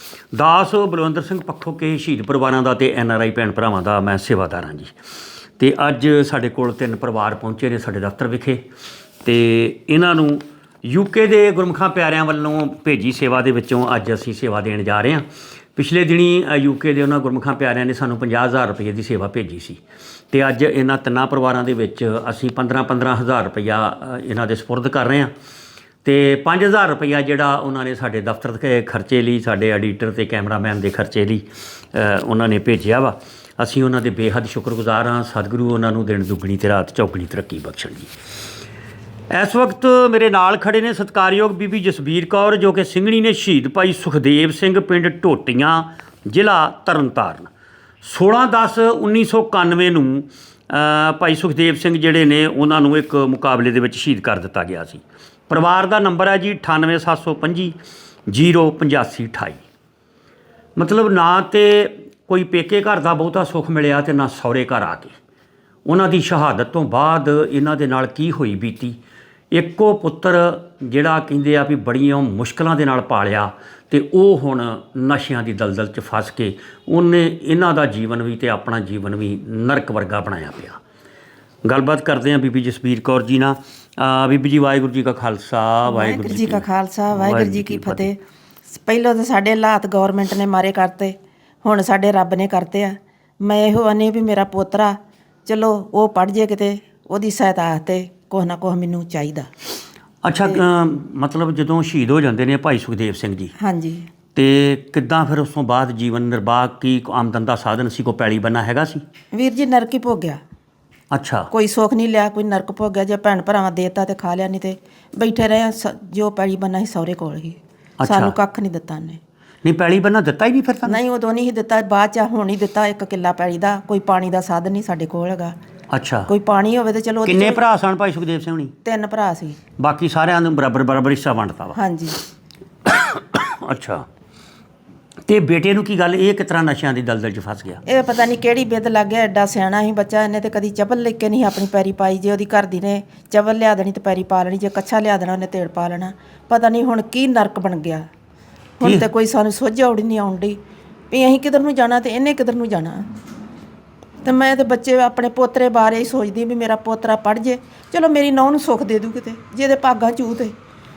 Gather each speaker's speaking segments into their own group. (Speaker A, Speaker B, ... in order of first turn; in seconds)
Speaker A: 0.3-4.9, 5.6-8.6, 9.2-19.8, 20.3-25.3, 26.0-38.1, 39.3-47.5, 48.0-57.8, 58.3-59.6, 60.8-65.2, 65.8-69.0, 69.5-80.8, 81.6-88.1, 100.2-103.5, 104.3-109.0, 111.1-111.5, 118.0-118.3, 119.6-121.0, 125.9-126.3, 127.2-128.7, 129.8-131.8, 132.8-134.1, 135.2-137.8
Speaker B: 85.8-88.2, 88.7-99.5, 103.6-104.1, 109.3-110.4, 111.5-119.2, 120.8-125.5, 126.3-127.6, 128.8-129.6, 131.7-132.2, 137.8-148.1, 148.8-150.6, 151.1-153.1, 154.2-160.5